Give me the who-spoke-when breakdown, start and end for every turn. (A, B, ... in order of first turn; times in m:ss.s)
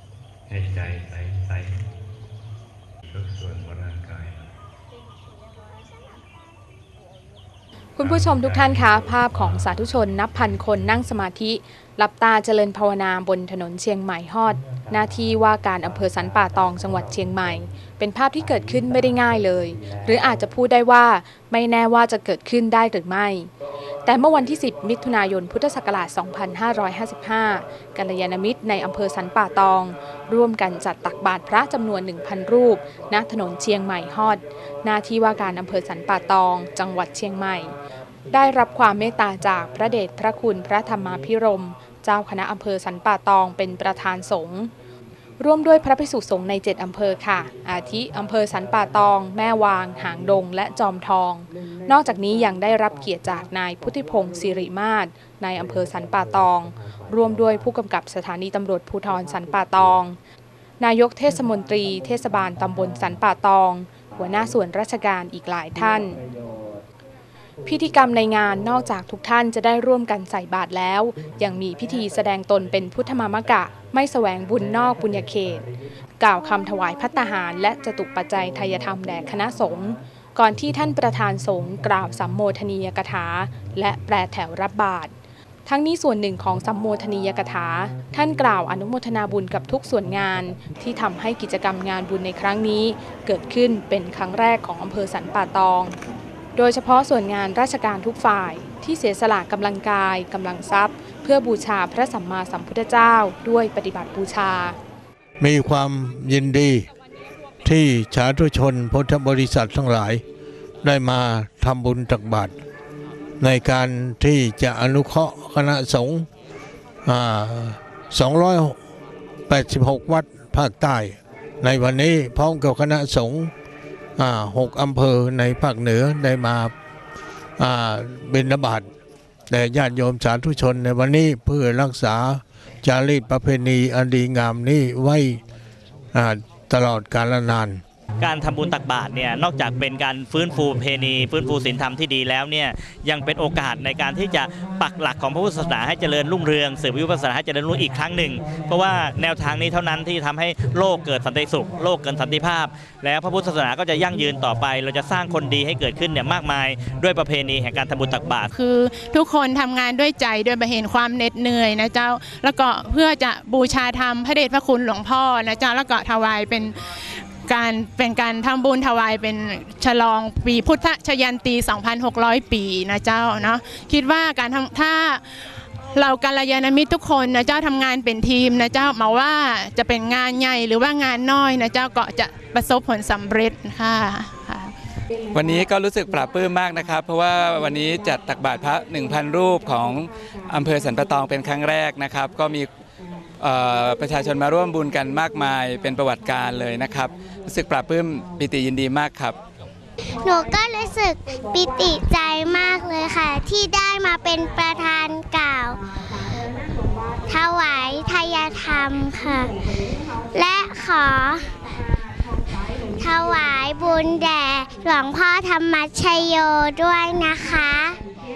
0:00.5-0:01.9 A
0:03.1-0:04.5 A
0:08.0-0:23.5 B
0:08.0-0:09.6 A
0:24.0-0:37.7 B
0:38.3-0:44.7 B
0:45.4-1:00.2 B
1:00.8-1:06.2 B
1:07.7-1:15.7 B
1:16.2-1:25.1 B
1:25.7-1:36.0 B
1:36.6-1:44.8 B
1:45.4-1:46.9 C
1:47.6-1:50.2 C
1:50.8-1:52.5 C
1:53.4-1:56.3 C
1:57.0-1:58.8 C
1:59.5-2:03.5 C
2:04.2-2:06.7 C
2:07.6-2:08.8 C
2:09.5-2:15.4 C
2:16.1-2:17.8 C
2:18.2-2:38.5 D
2:38.5-2:46.8 E
2:47.4-2:55.2 E
2:55.9-3:04.7 E
3:05.3-3:12.7 F
3:13.4-3:19.4 F
3:20.2-3:25.8 G
3:27.3-3:29.5 G
3:30.3-3:31.5 G
3:32.9-3:38.0 G